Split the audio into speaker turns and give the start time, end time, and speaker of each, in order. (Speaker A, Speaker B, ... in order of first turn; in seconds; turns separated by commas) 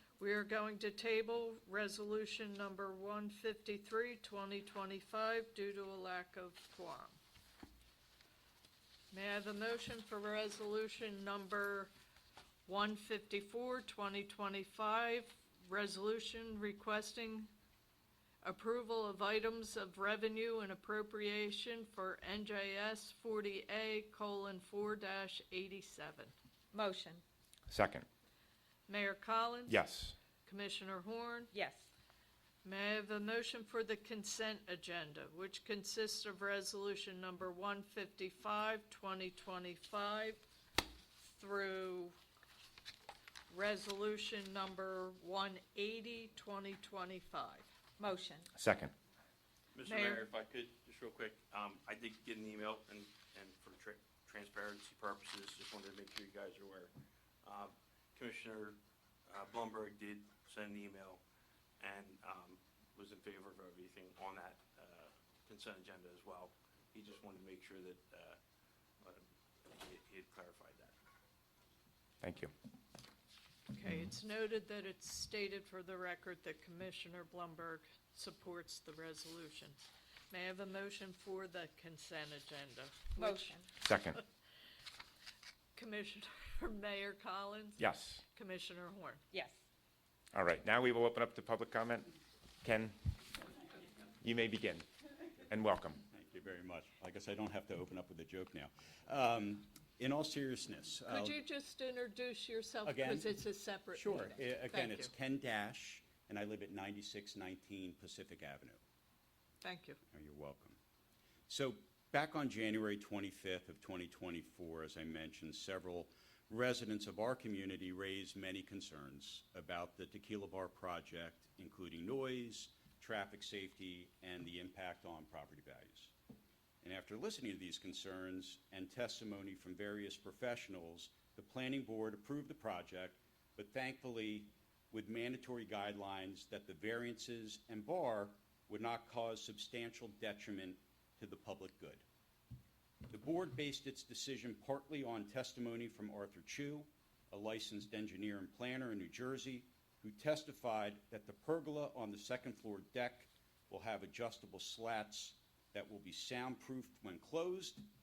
Speaker A: 0.2-7.2, Speaker A: 9.1-11.9, Speaker A: 12.7-17.5, Speaker A: 18.4-26.3, Speaker B: 26.7-27.2, Speaker C: 27.7-28.1, Speaker A: 28.9-29.8, Speaker C: 29.7-30.2, Speaker A: 30.4-31.5, Speaker B: 31.5-31.9, Speaker A: 32.6-40.4, Speaker A: 41.2-42.2, Speaker A: 43.5-47.7, Speaker B: 48.0-48.5, Speaker C: 48.6-48.9, Speaker D: 49.8-56.9, Speaker A: 49.9-50.2, Speaker D: 57.4-61.2, Speaker D: 61.8-68.4, Speaker D: 69.0-70.9, Speaker C: 72.2-72.5, Speaker A: 73.7-79.8, Speaker A: 80.3-83.6, Speaker B: 83.2-83.7, Speaker C: 83.8-84.2, Speaker A: 85.8-89.2, Speaker C: 87.8-88.2, Speaker B: 89.3-89.6, Speaker C: 90.3-92.1, Speaker C: 92.6-93.0, Speaker C: 94.2-94.9, Speaker C: 95.4-96.0, Speaker E: 96.1-101.4, Speaker A: 101.1-105.1, Speaker E: 102.8-103.3, Speaker E: 103.9-108.8, Speaker A: 109.6-110.0, Speaker E: 110.1-110.8, Speaker E: 111.5-126.1, Speaker E: 126.8-142.1, Speaker E: 143.1-157.9